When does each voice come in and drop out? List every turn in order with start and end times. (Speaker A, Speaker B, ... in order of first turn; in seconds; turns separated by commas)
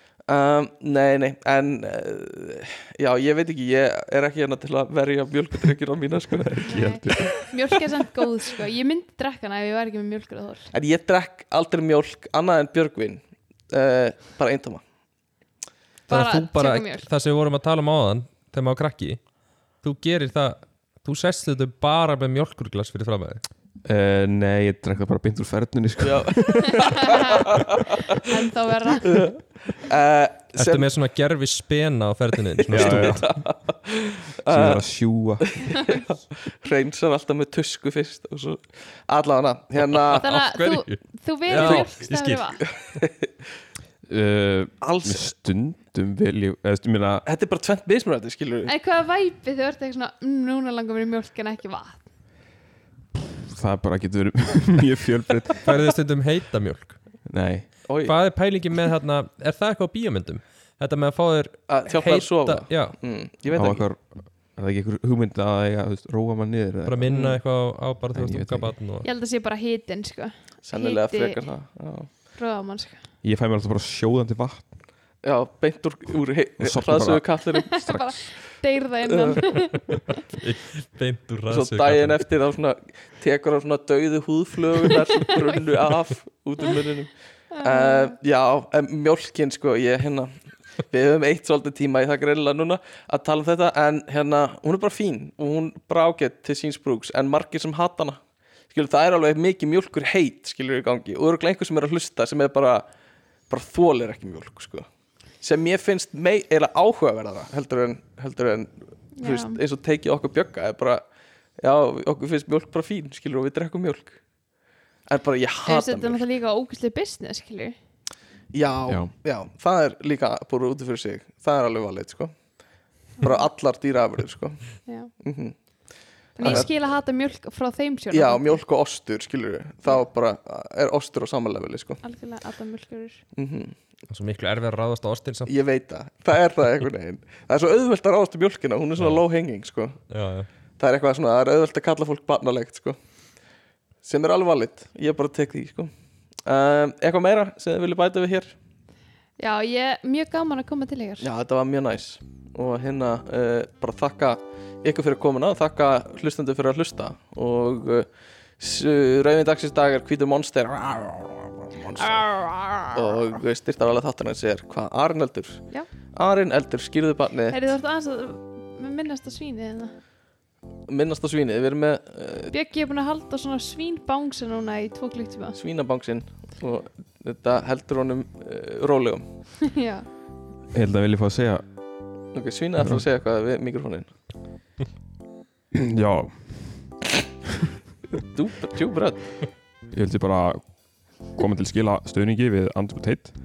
Speaker A: 0.3-6.7, Speaker B: 6.4-7.5, Speaker C: 6.6-10.7, Speaker A: 10.7-14.8, Speaker C: 16.1-17.1, Speaker D: 16.1-23.4, Speaker B: 23.9-27.1, Speaker A: 26.0-27.1, Speaker C: 26.9-27.1, Speaker C: 28.1-29.1, Speaker A: 29.0-30.9, Speaker D: 30.6-33.2, Speaker A: 32.7-34.8, Speaker B: 32.7-33.5, Speaker B: 34.5-35.6, Speaker A: 35.6-40.2, Speaker D: 39.9-42.7, Speaker C: 40.2-42.6, Speaker B: 44.1-47.2, Speaker A: 44.8-45.3, Speaker A: 47.2-48.7, Speaker C: 48.7-52.0, Speaker B: 53.5-55.7, Speaker D: 55.6-57.0, Speaker B: 57.3-57.7, Speaker A: 57.9-58.2, Speaker D: 58.0-63.0, Speaker A: 61.7-63.8, Speaker B: 63.5-67.3, Speaker D: 66.8-69.1, Speaker A: 67.1-67.4, Speaker B: 68.1-68.8, Speaker C: 69.0-71.4, Speaker A: 70.7-72.1, Speaker C: 72.3-73.0, Speaker B: 73.2-74.7, Speaker A: 75.2-77.9, Speaker B: 76.6-78.2, Speaker C: 77.7-79.8, Speaker A: 79.1-79.4, Speaker D: 80.4-82.2, Speaker A: 81.5-90.3, Speaker C: 87.6-88.2, Speaker A: 90.8-98.2, Speaker A: 98.7-102.9, Speaker A: 103.5-104.9, Speaker A: 105.4-108.7, Speaker C: 109.2-109.6, Speaker A: 109.2-111.0, Speaker A: 111.6-114.2, Speaker A: 115.1-116.2, Speaker C: 115.7-117.8, Speaker A: 118.5-122.6, Speaker A: 123.2-125.5, Speaker C: 123.2-123.5, Speaker C: 124.9-125.1, Speaker A: 126.2-126.9, Speaker C: 126.4-128.6, Speaker A: 128.1-132.0, Speaker C: 132.0-133.2, Speaker A: 133.4-133.8, Speaker D: 134.1-135.5, Speaker A: 135.5-140.0, Speaker D: 140.1-140.5, Speaker A: 140.8-143.0, Speaker A: 144.0-145.9, Speaker A: 146.4-148.5, Speaker C: 149.4-151.3, Speaker A: 151.2-158.1, Speaker A: 158.6-162.2, Speaker C: 162.0-163.1, Speaker A: 162.9-165.6, Speaker A: 166.2-167.7, Speaker C: 167.5-169.9, Speaker A: 170.9-172.5, Speaker C: 172.5-175.6, Speaker A: 175.6-179.2, Speaker C: 179.7-180.1, Speaker B: 180.7-181.7, Speaker A: 182.3-184.1, Speaker B: 182.8-183.1, Speaker B: 185.7-186.8, Speaker A: 188.3-189.2, Speaker B: 189.9-190.7, Speaker B: 191.2-193.3